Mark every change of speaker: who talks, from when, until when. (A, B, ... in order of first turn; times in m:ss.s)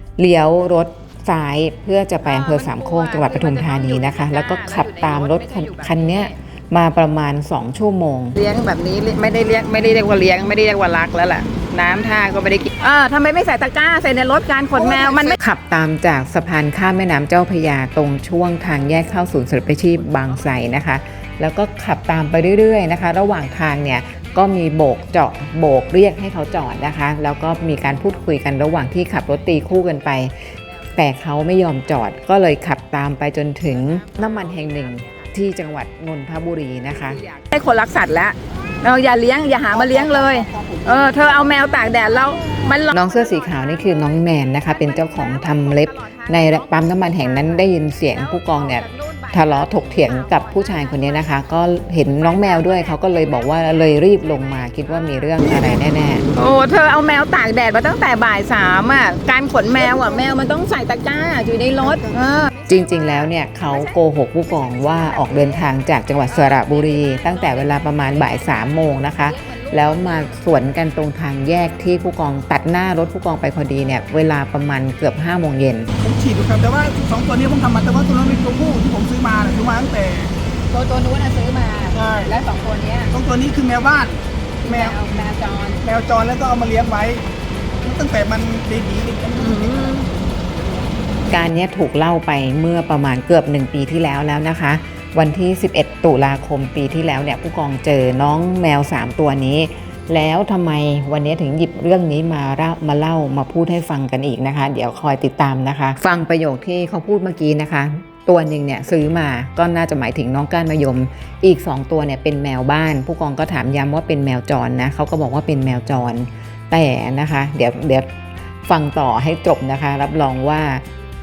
0:00.2-0:08.4 A
0:02.2-0:06.3 B
0:08.4-0:15.4 B
0:15.4-0:37.2 A
0:34.1-0:34.7 B
0:37.0-0:51.3 B
0:39.7-0:41.3 C
0:42.9-0:56.3 A
0:52.2-0:55.4 B
0:56.3-1:05.8 B
1:02.7-1:15.9 A
1:06.3-1:10.3 B
1:16.0-1:20.3 C
1:20.7-1:23.2 B
1:22.0-1:22.3 C
1:23.1-1:25.0 C
1:24.6-1:25.9 B
1:25.8-1:27.2 C
1:27.8-1:30.1 C
1:29.4-1:30.1 B
1:31.3-2:00.8 A